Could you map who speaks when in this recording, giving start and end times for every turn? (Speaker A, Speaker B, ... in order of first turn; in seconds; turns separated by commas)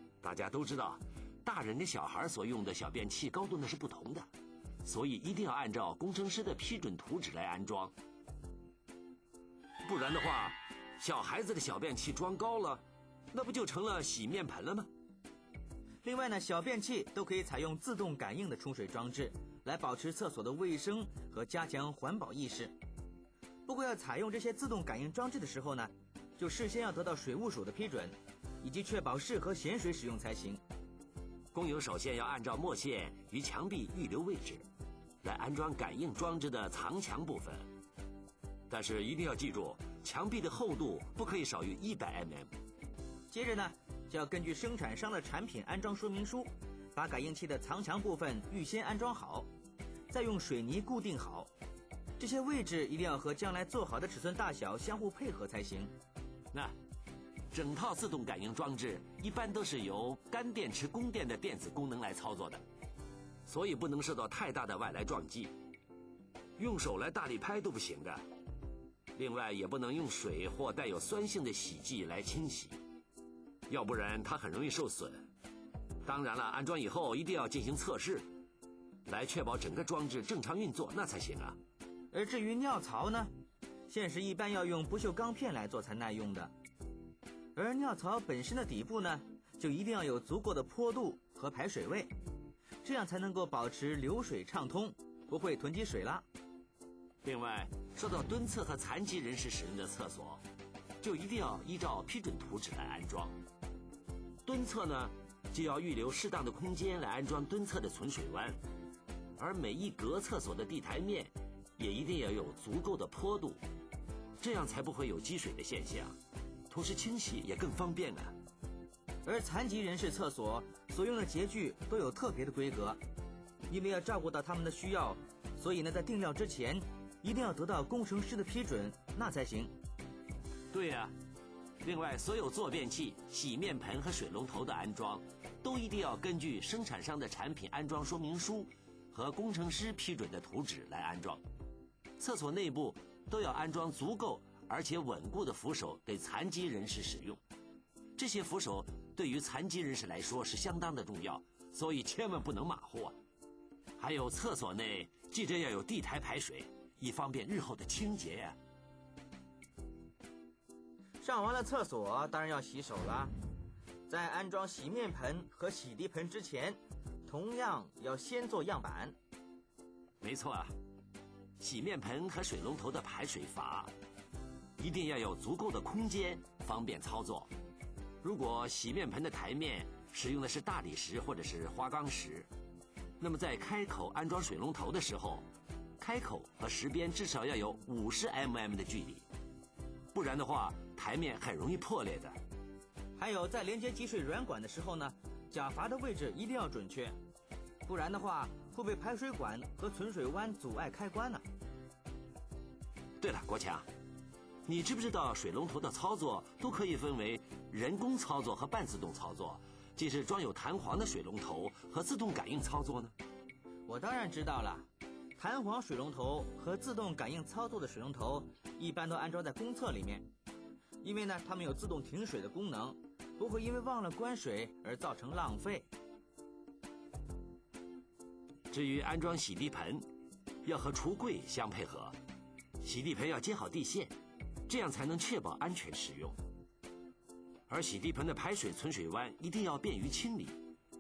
Speaker A: 0.2-4.3, Speaker A: 4.8-7.9, Speaker A: 9.8-14.9, Speaker B: 16.0-22.7, Speaker B: 23.7-30.6, Speaker A: 31.5-34.6, Speaker A: 35.2-37.7, Speaker A: 38.7-42.5, Speaker B: 43.3-49.5, Speaker B: 50.1-51.5, Speaker B: 52.2-55.9, Speaker A: 57.5-62.6, Speaker A: 63.5-65.5, Speaker A: 66.6-68.2, Speaker A: 69.2-72.8, Speaker A: 73.7-75.2, Speaker A: 76.0-78.3, Speaker A: 79.1-81.6, Speaker B: 82.1-83.3, Speaker B: 83.9-86.5, Speaker B: 87.5-92.1, Speaker B: 92.8-96.2, Speaker A: 97.2-100.4, Speaker A: 101.0-103.4, Speaker A: 104.5-108.6, Speaker A: 109.4-113.6, Speaker A: 114.4-116.2, Speaker A: 116.7-118.3, Speaker B: 119.2-123.0, Speaker B: 123.7-129.7, Speaker A: 130.7-131.1, Speaker A: 131.8-141.4, Speaker A: 142.2-147.4, Speaker A: 148.2-153.2, Speaker A: 154.0-158.6, Speaker B: 161.2-163.3, Speaker B: 164.1-169.2, Speaker A: 170.2-170.7, Speaker A: 171.6-173.9, Speaker A: 174.8-177.5, Speaker A: 178.2-182.5, Speaker A: 183.2-185.4, Speaker A: 186.0-189.2, Speaker A: 190.1-192.4, Speaker B: 193.2-197.2, Speaker B: 197.9-201.4, Speaker A: 203.2-203.8, Speaker A: 204.7-213.1, Speaker B: 213.9-214.9, Speaker B: 215.4-220.2, Speaker B: 221.0-225.9, Speaker A: 228.7-230.0, Speaker A: 230.7-232.2, Speaker A: 232.8-234.1, Speaker A: 234.7-236.4, Speaker A: 237.7-240.6